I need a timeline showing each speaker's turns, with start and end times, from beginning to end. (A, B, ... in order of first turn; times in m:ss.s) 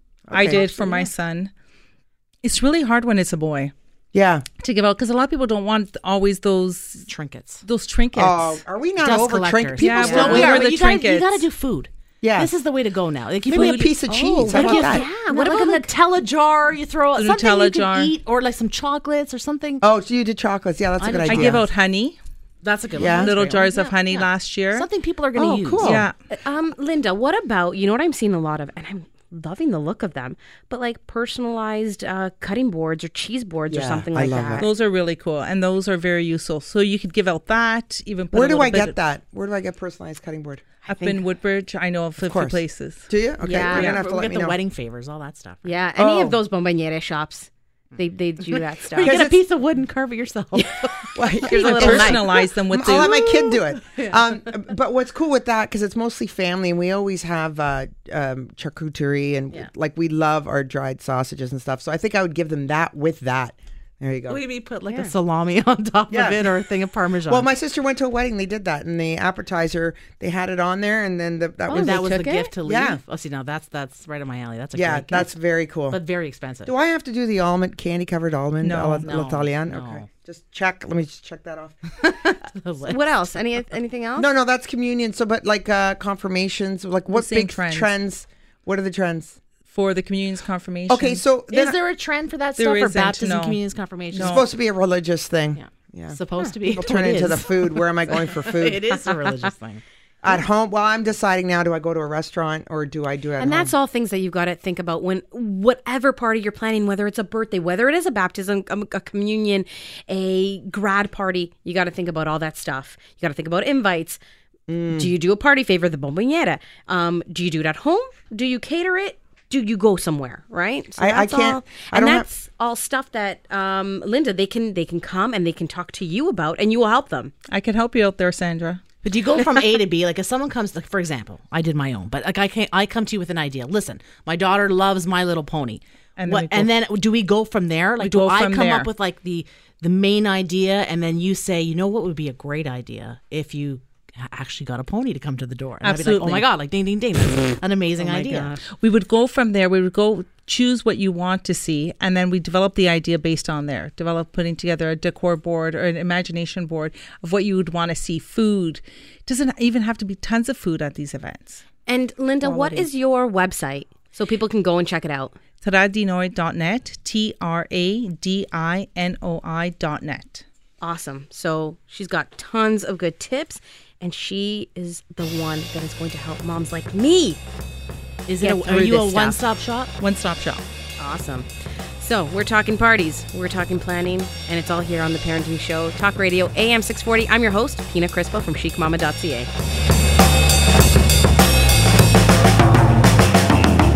0:00.3-0:00.6 A
0:00.3-0:01.5 B
0:00.5-0:01.1 C
0:02.4-0:03.7 B
0:04.1-0:04.4 A
0:04.6-0:07.1 B
0:07.1-0:07.6 D
0:07.6-0:08.6 B
0:08.2-0:10.6 A
0:09.0-0:19.8 D
0:09.8-0:11.4 B
0:10.0-0:10.5 C
0:12.2-0:12.5 A
0:13.4-0:15.1 A
0:13.5-0:13.9 B
0:14.1-0:15.9 C
0:17.1-0:18.1 B
0:19.8-0:21.6 A
0:21.0-0:21.6 D
0:21.3-0:22.2 B
0:22.6-0:26.0 D
0:22.9-0:23.6 A
0:23.0-0:24.9 B
0:25.3-0:26.1 A
0:25.8-0:26.2 B
0:26.3-0:34.7 C
0:33.7-0:34.7 A
0:34.6-0:39.0 B
0:38.3-0:41.2 A
0:40.8-0:43.1 B
0:42.2-0:44.6 A
0:43.4-0:44.0 C
0:43.5-0:45.7 D
0:45.6-0:49.2 C
0:46.0-0:46.4 A
0:48.5-0:52.4 D
0:49.0-0:49.4 A
0:50.6-0:52.4 C
0:51.2-1:04.4 A
0:51.5-0:53.2 B
0:53.9-0:54.4 D
1:04.3-1:07.5 D
1:06.1-1:06.5 A
1:07.3-1:13.0 A
1:11.7-1:12.5 C
1:11.7-1:15.3 D
1:14.7-1:16.0 A
1:15.9-1:16.7 D
1:16.6-1:21.8 A
1:18.6-1:19.1 B
1:19.0-1:20.1 D
1:22.0-1:23.0 D
1:22.9-1:24.3 C
1:24.2-1:29.4 A
1:27.1-1:27.9 B
1:29.7-1:31.2 B
1:30.9-1:31.8 A
1:31.5-1:34.4 D
1:32.6-1:34.4 B
1:34.1-1:38.9 A
1:35.5-1:39.8 D
1:40.2-1:43.7 A
1:43.4-1:54.2 C
1:54.7-1:55.1 A
1:54.9-2:07.3 C
2:01.0-2:02.3 A
2:07.5-2:08.8 B
2:09.0-2:28.6 D
2:16.2-2:16.7 B
2:18.0-2:18.9 B
2:25.8-2:26.5 B
2:28.0-2:28.6 C
2:28.6-2:41.6 B
2:41.9-2:45.4 C
2:42.4-2:42.9 B
2:45.6-2:50.4 B
2:50.8-2:57.4 C
2:58.3-2:59.9 D
2:58.4-2:59.4 C
3:00.0-3:00.6 B
3:01.0-3:09.5 C